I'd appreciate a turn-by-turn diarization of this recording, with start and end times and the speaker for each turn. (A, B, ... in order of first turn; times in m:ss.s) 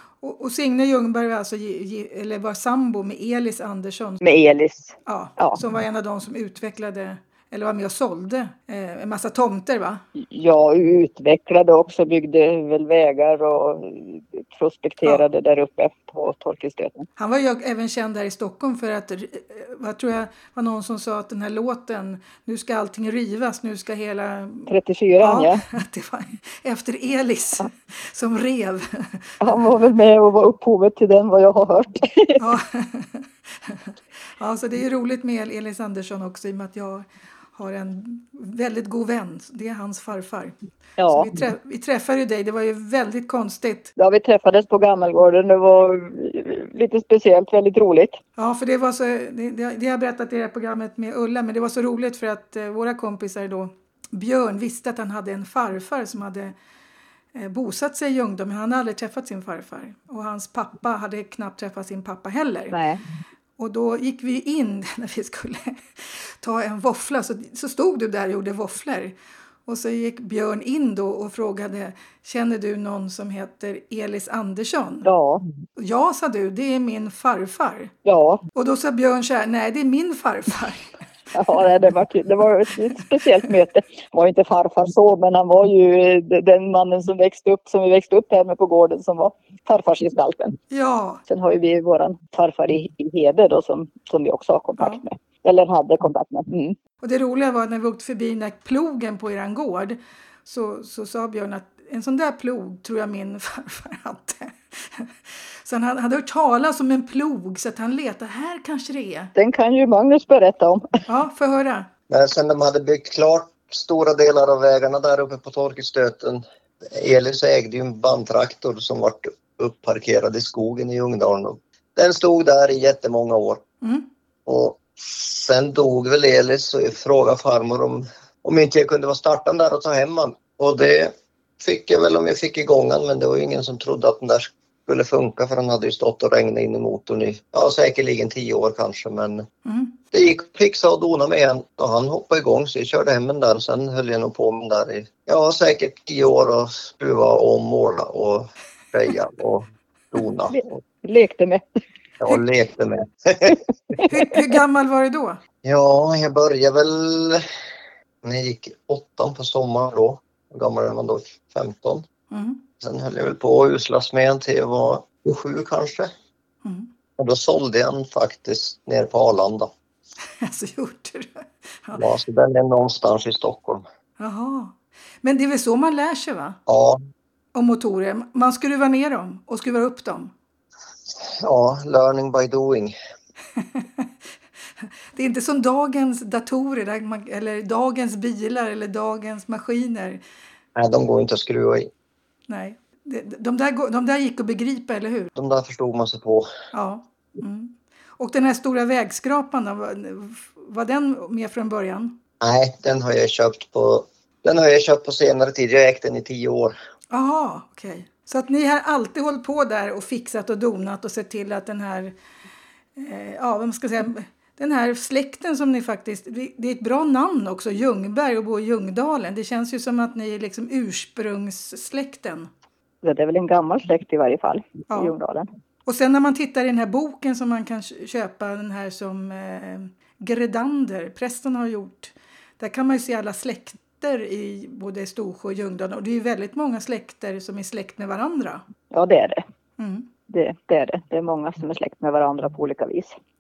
0:00.2-0:04.2 A
0:04.2-0:05.6 B
0:05.1-0:10.0 A
0:10.2-0:17.1 B
0:17.2-0:29.6 A
0:24.7-0:25.6 B
0:29.4-0:32.4 B
0:32.4-0:40.6 A
0:41.0-0:41.3 B
0:41.1-0:43.9 A
0:44.0-0:48.2 B
0:48.4-0:56.5 A
0:57.4-1:02.8 A
1:02.7-1:03.0 B
1:03.6-1:09.2 A
1:09.7-1:15.1 A
1:15.0-1:15.4 B
1:15.8-1:17.9 A
1:18.1-1:18.4 B
1:18.5-1:20.9 A
1:21.3-1:30.6 B
1:30.7-1:31.2 A
1:31.3-1:36.8 B
1:37.0-1:49.3 A
1:49.4-1:51.0 B
1:51.1-1:51.9 A
1:52.1-2:03.6 C
2:04.5-2:19.4 C
2:19.7-2:20.0 A
2:20.1-2:30.8 C
2:30.5-2:31.6 B
2:32.2-2:33.6 C
2:34.1-2:35.4 A
2:35.6-2:37.4 C
2:38.2-2:42.0 C
2:42.3-2:42.6 A
2:42.8-2:46.1 C
2:47.2-2:49.7 C
2:50.4-2:52.0 A
2:51.9-2:53.8 C
2:54.2-2:56.6 A
2:56.7-2:57.0 C
2:57.5-3:00.3 A
3:01.2-3:02.9 C
3:03.6-3:04.1 A
3:04.8-3:10.2 A
3:10.8-3:11.9 C
3:12.5-3:15.3 A
3:15.4-3:16.5 C
3:16.7-3:22.2 A
3:22.4-3:26.8 C
3:27.1-3:32.2 A
3:33.0-3:42.5 A
3:43.0-3:45.5 B
3:45.9-3:58.6 A
3:58.9-3:59.4 B
3:59.8-4:00.1 A
4:00.3-4:03.2 B